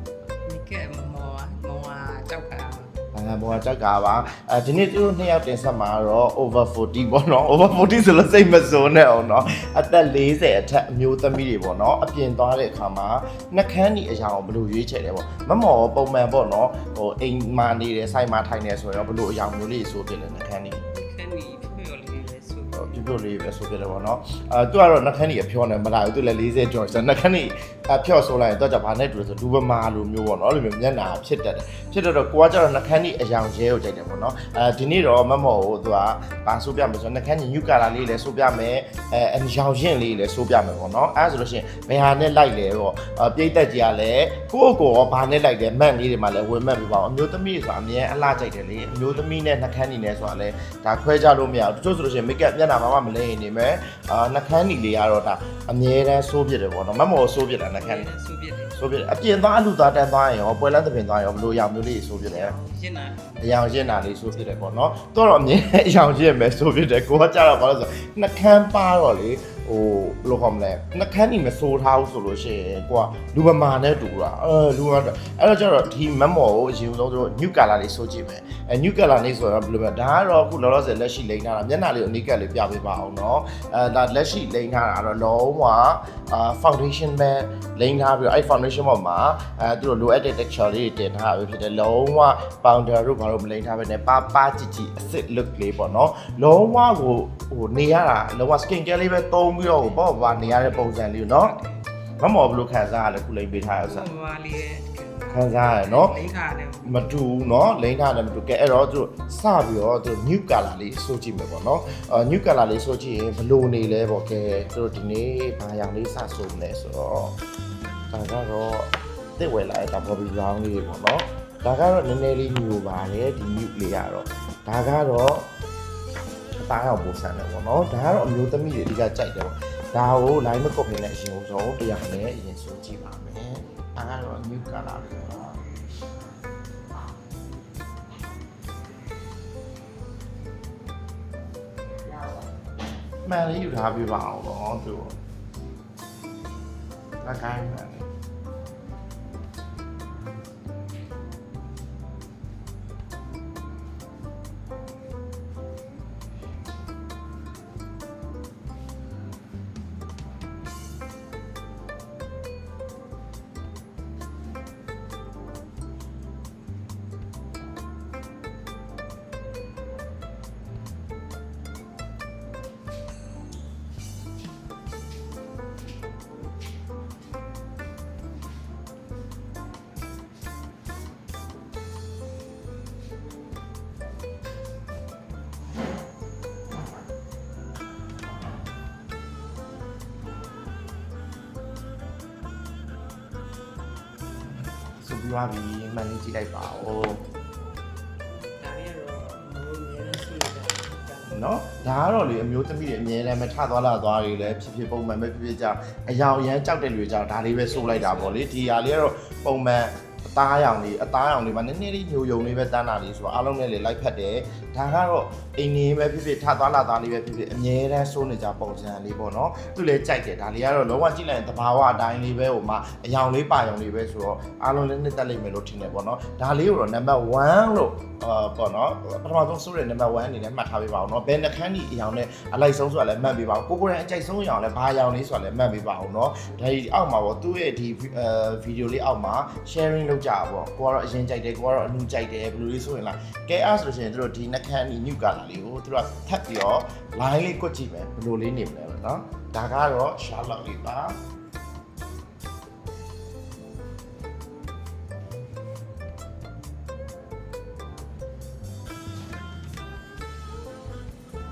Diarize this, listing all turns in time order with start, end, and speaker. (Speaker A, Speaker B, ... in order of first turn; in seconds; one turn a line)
Speaker A: 0.5-2.9
Speaker B: 3.1-20.8
Speaker A: 20.9-23.1
Speaker B: 22.7-58.1
Speaker A: 57.7-58.8
Speaker B: 58.8-62.5
Speaker A: 62.2-64.2
Speaker B: 63.4-101.5
Speaker A: 99.7-101.8
Speaker B: 102.2-104.1
Speaker A: 103.8-107.3
Speaker B: 105.3-106.2
Speaker B: 106.8-117.4
Speaker B: 118.1-125.5
Speaker B: 126.6-135.6
Speaker B: 143.2-145.2
Speaker B: 147.2-148.1
Speaker B: 194.5-197.2
Speaker A: 198.3-201.4
Speaker B: 201.3-251.2
Speaker A: 207.6-208.8